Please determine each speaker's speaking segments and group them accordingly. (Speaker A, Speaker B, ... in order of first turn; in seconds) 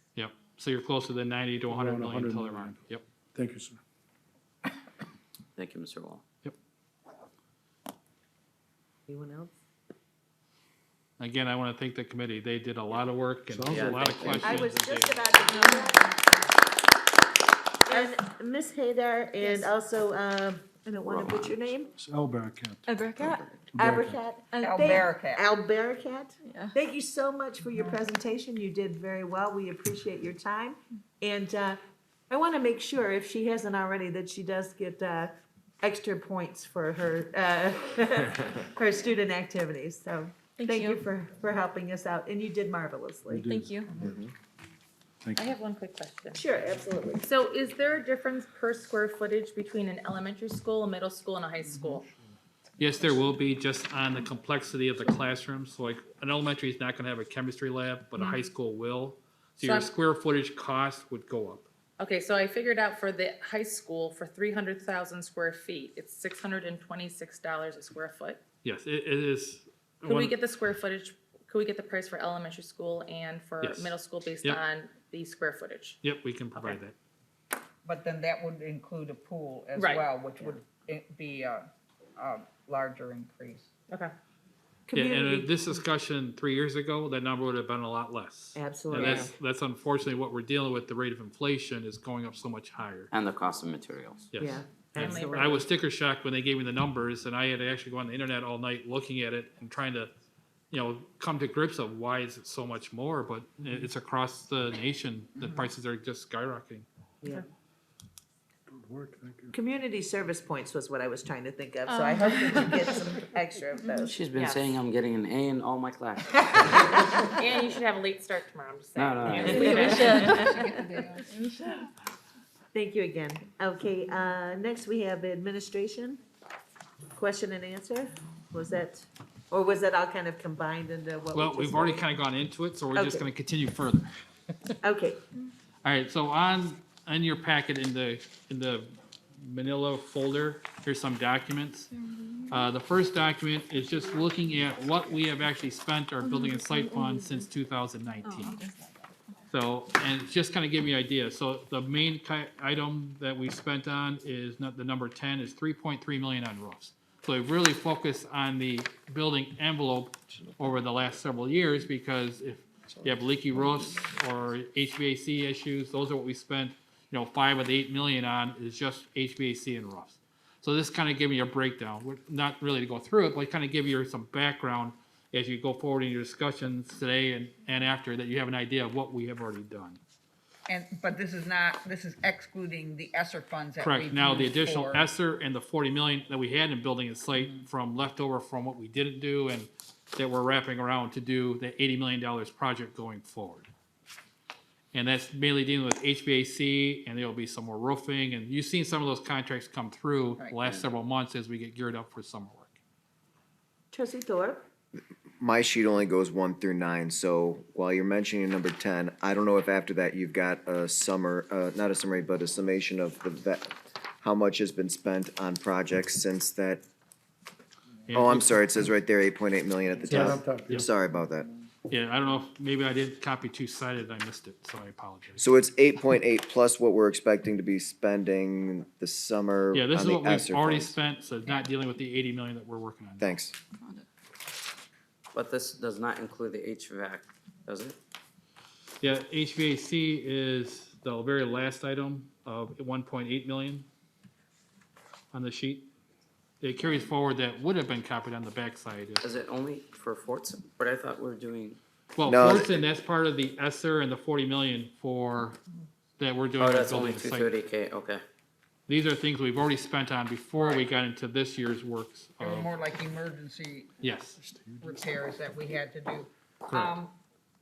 Speaker A: 0.1-3.0, 11.2-15.2, 52.8-61.7, 68.6-70.3, 73.6-74.6, 76.0-76.9, 84.9-93.1, 94.3-100.1, 100.7-106.8, 131.3-134.7, 135.8-141.9, 142.5-148.6, 149.5-180.0, 183.8-193.7, 194.9-202.8, 218.1-218.6, 220.1-220.9, 221.9-225.5, 229.7-233.3, 239.0-243.9, 245.3-245.9, 246.6-249.2, 252.1-255.6, 256.2-257.5, 258.9-262.8, 264.0-264.4, 266.7-266.9
Speaker B: 1.7-2.8, 3.3-3.8, 13.5-14.6, 22.0-22.9, 23.7-24.2, 43.3-43.8, 108.7-109.5, 220.1-220.9, 264.4-265.0
Speaker C: 5.6-6.2, 13.7-14.3, 21.1-21.5, 93.1-94.2, 114.0-116.8, 119.0-120.0, 235.3-238.0, 249.2-251.8, 256.6-258.2
Speaker D: 9.1-9.5, 14.2-16.2, 17.9-21.9, 23.7-31.8, 32.3-43.5, 46.3-47.2, 84.9-85.5, 88.5-89.3, 94.4-95.7, 109.5-114.2, 122.7-126.2, 127.1-132.0, 132.9-133.2, 134.8-135.2, 203.9-204.6
Speaker E: 15.5-16.1, 19.4-19.7, 22.9-23.5, 24.5-25.0, 26.4-26.8, 40.6-41.0, 43.5-43.9, 111.9-112.8, 119.5-120.8, 142.1-142.5, 146.2-147.4, 148.2-148.9
Speaker F: 24.6-25.4, 77.8-83.7, 105.4-105.7, 119.5-121.6, 180.7-185.1, 262.4-263.9, 264.8-267.1
Speaker G: 45.3-46.4, 47.2-52.0, 59.6-59.9, 62.0-68.4, 70.0-76.0, 79.7-80.0, 89.0-89.3, 95.0-95.6, 114.3-114.6, 117.4-120.3
Speaker H: 205.4-216.8, 218.2-221.5, 225.4-231.0, 233.2-233.6, 252.2-252.7